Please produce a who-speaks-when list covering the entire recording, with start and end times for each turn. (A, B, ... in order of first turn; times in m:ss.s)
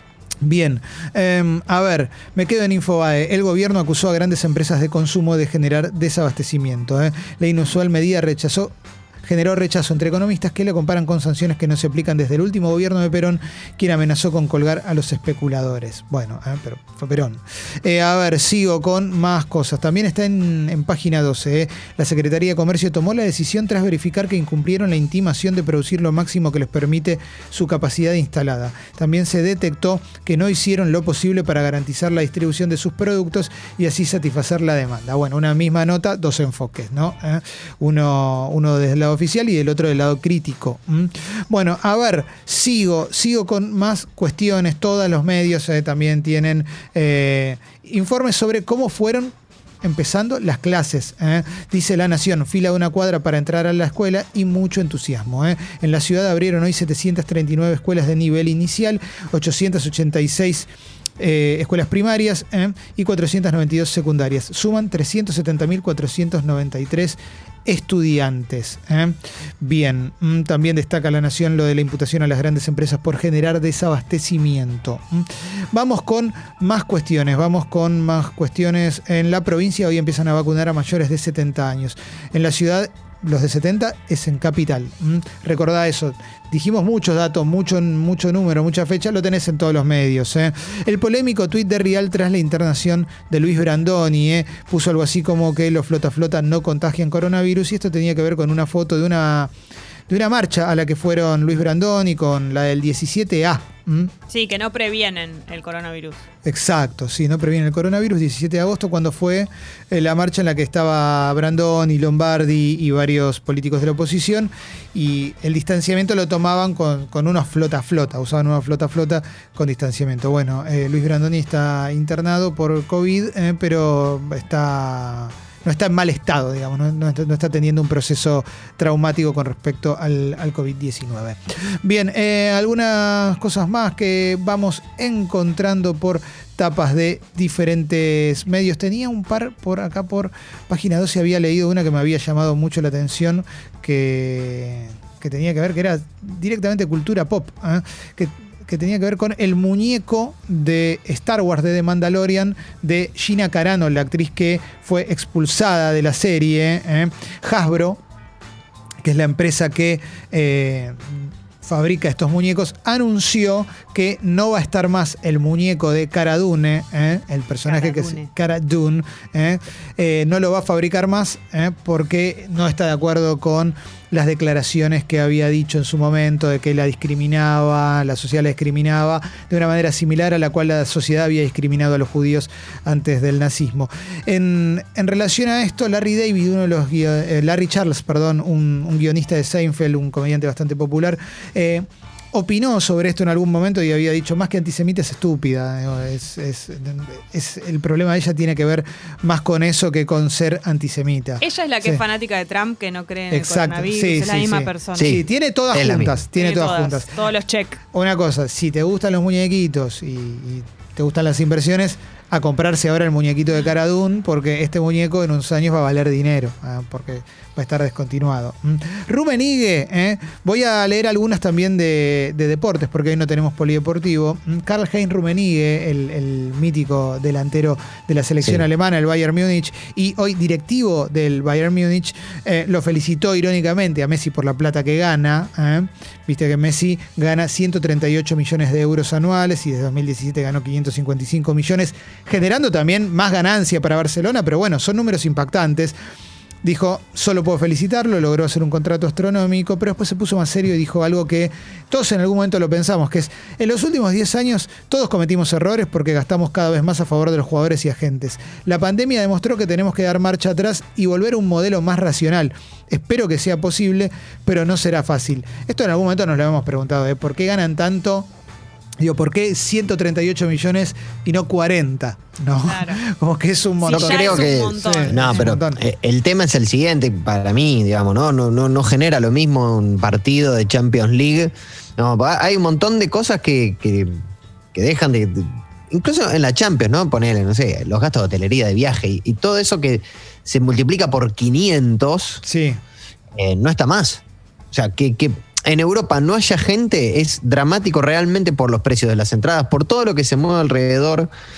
0:00.4-0:08.7 A
0:09.2-1:39.5 A
1:40.1-1:44.1 A
1:44.3-1:46.2 B
1:46.4-2:38.0 A
2:39.0-3:22.0 A
2:47.6-2:48.3 B
3:21.4-3:25.1 B
3:23.3-3:27.1 A
3:25.0-3:26.2 C
3:26.3-3:27.8 B
3:27.9-4:05.9 A
4:06.6-4:28.3 A
4:29.0-4:35.8 A
4:32.5-4:33.0 B
4:33.8-4:35.2 B
4:33.9-4:44.2 C
4:44.7-4:52.4 C
4:52.4-4:52.8 A
4:53.4-5:01.3 C